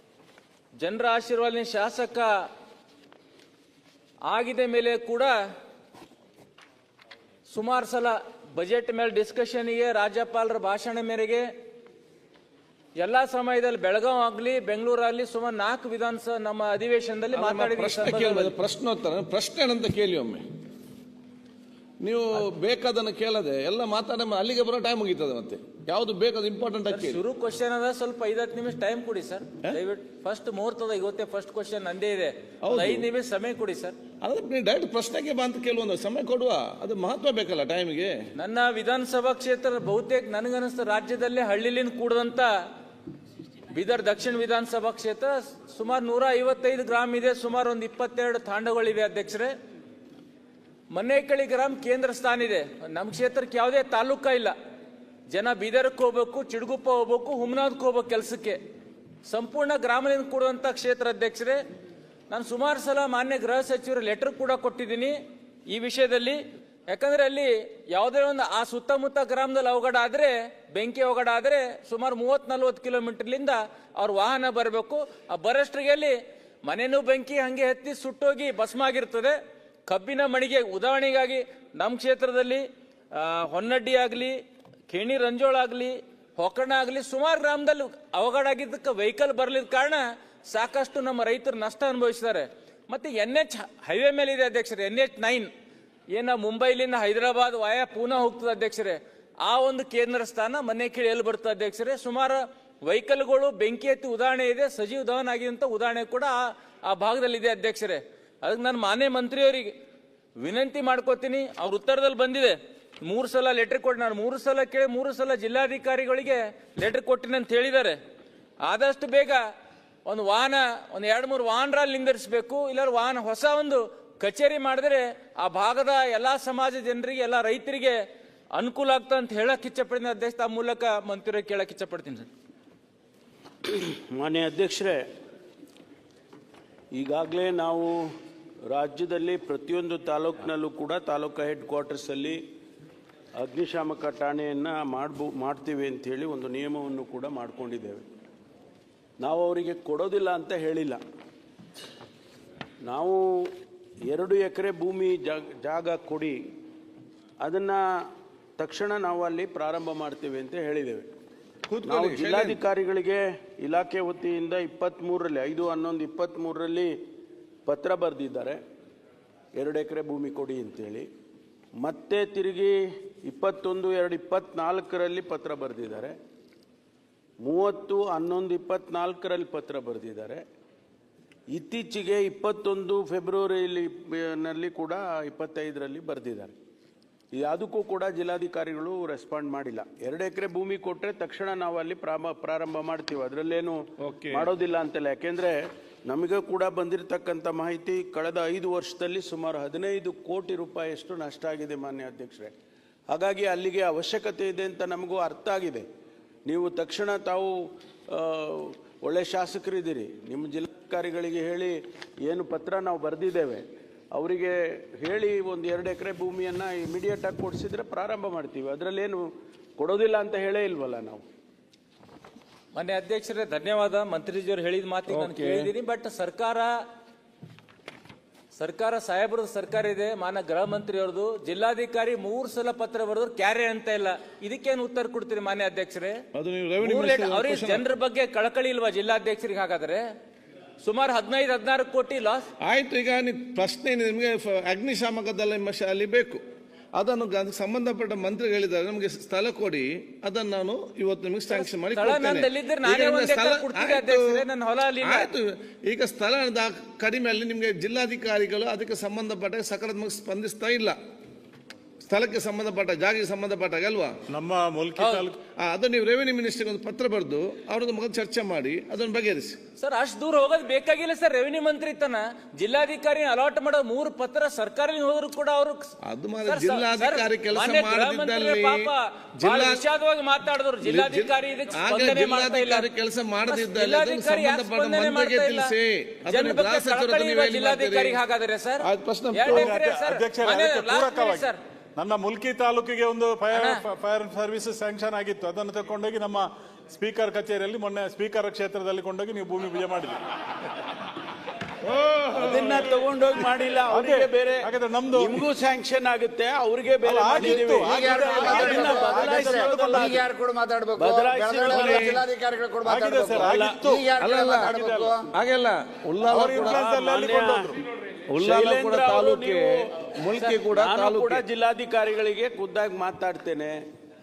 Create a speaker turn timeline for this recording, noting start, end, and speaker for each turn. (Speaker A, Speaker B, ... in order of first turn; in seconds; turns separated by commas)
Speaker A: 0.8-2.4, Speaker A: 4.3-5.3, Speaker A: 7.5-11.5, Speaker A: 13.0-18.5, Speaker B: 17.3-20.4, Speaker B: 22.0-27.2, Speaker A: 26.9-34.0, Speaker B: 32.6-33.1, Speaker B: 34.2-38.3, Speaker A: 38.4-42.5, Speaker A: 43.7-49.5, Speaker A: 50.9-54.5, Speaker A: 55.3-58.6, Speaker A: 59.3-61.6, Speaker A: 62.3-65.2, Speaker A: 65.7-84.4, Speaker A: 84.9-95.5, Speaker A: 96.1-109.7, Speaker A: 110.4-118.0, Speaker A: 118.6-119.5, Speaker A: 120.0-128.0, Speaker A: 128.6-132.3, Speaker C: 133.7-135.0, Speaker C: 136.9-137.9, Speaker C: 138.7-142.4, Speaker C: 143.4-148.1, Speaker C: 149.2-151.0, Speaker C: 152.8-153.2, Speaker C: 154.1-156.4, Speaker C: 157.4-157.8, Speaker C: 158.6-161.1, Speaker B: 161.7-162.6, Speaker C: 161.8-166.9, Speaker C: 167.7-168.6, Speaker C: 169.6-171.1, Speaker C: 171.8-176.2, Speaker C: 177.4-180.4, Speaker C: 181.5-186.6, Speaker C: 187.3-202.5, Speaker B: 194.0-194.5, Speaker C: 203.1-205.8, Speaker C: 206.4-221.2, Speaker A: 222.7-226.8, Speaker B: 225.1-225.7, Speaker A: 228.6-236.2, Speaker B: 236.3-237.9, Speaker A: 236.8-240.0, Speaker A: 240.8-242.5, Speaker B: 242.6-246.4, Speaker B: 246.9-254.4, Speaker A: 251.5-255.3, Speaker B: 255.0-260.9, Speaker B: 262.0-264.1, Speaker D: 264.3-265.4, Speaker A: 265.0-265.3, Speaker B: 265.6-269.6, Speaker A: 269.8-275.9, Speaker B: 276.1-279.9, Speaker A: 276.4-282.9, Speaker B: 280.8-288.2, Speaker A: 283.5-285.7, Speaker A: 286.3-291.6, Speaker B: 288.8-289.7, Speaker D: 289.5-300.2, Speaker A: 293.5-293.8, Speaker C: 302.3-310.2, Speaker D: 302.5-303.0, Speaker D: 303.9-305.4, Speaker D: 307.0-310.2, Speaker E: 307.3-315.3, Speaker C: 310.9-312.2, Speaker D: 311.7-312.1, Speaker D: 312.8-314.1, Speaker C: 313.4-313.9, Speaker B: 314.2-316.9, Speaker D: 314.7-315.1, Speaker D: 316.3-317.8, Speaker C: 316.6-317.8, Speaker B: 318.3-321.4, Speaker C: 318.4-319.9, Speaker C: 320.7-323.8